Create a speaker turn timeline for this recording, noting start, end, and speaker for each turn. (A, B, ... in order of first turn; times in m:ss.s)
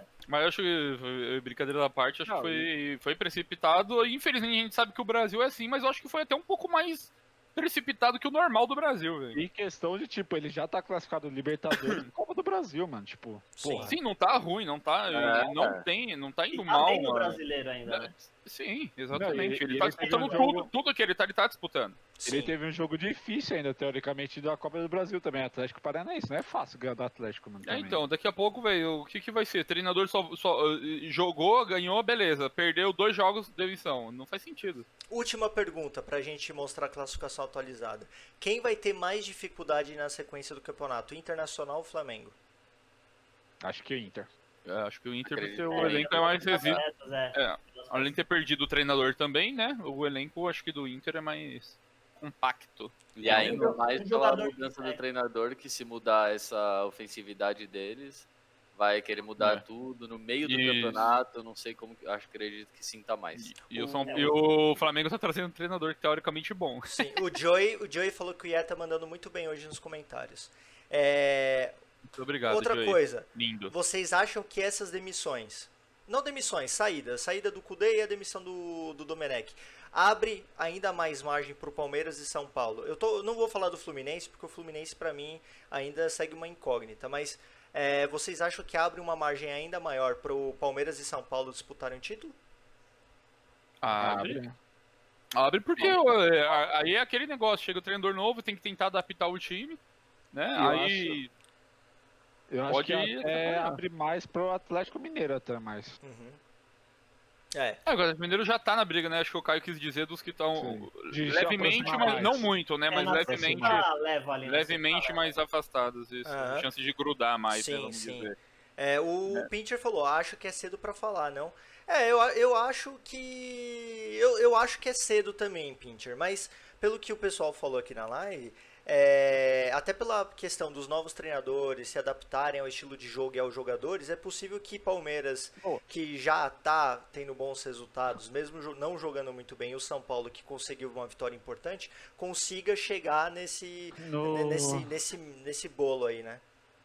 0:00.3-0:09.4 A
0:02.3-0:02.7 B
0:09.3-0:14.0 B
0:11.8-0:12.0 A
0:13.6-0:14.0 C
0:13.8-0:22.0 A
0:15.1-0:15.8 D
0:16.5-0:18.3 E
0:19.1-0:20.7 B
0:20.0-0:20.5 E
0:22.2-0:22.5 C
0:22.3-0:28.0 B
0:27.6-0:34.9 A
0:35.1-0:42.4 C
0:43.6-0:44.3 B
0:44.7-0:46.8 A
0:45.2-0:46.8 D
0:45.7-0:48.2 E
0:47.3-0:53.8 A
0:53.2-1:03.5 D
0:53.3-0:55.0 E
0:59.4-0:59.6 A
1:00.4-1:01.2 A
1:03.4-1:07.1 A
1:04.0-1:04.4 E
1:06.9-1:11.8 C
1:12.0-1:13.7 A
1:12.5-1:32.4 C
1:33.8-1:34.4 A
1:34.0-1:34.6 B
1:35.3-1:39.8 A
1:40.3-1:41.3 A
1:40.6-1:41.2 B
1:42.5-1:46.0 B
1:42.7-1:43.8 A
1:46.0-1:46.4 C
1:47.5-1:47.8 C
1:47.9-1:53.9 A
1:50.6-1:52.5 B
1:52.9-1:55.3 E
1:53.2-1:53.8 B
1:54.4-1:58.4 A
1:56.3-1:56.7 C
1:57.5-2:26.4 C
2:24.0-2:24.9 B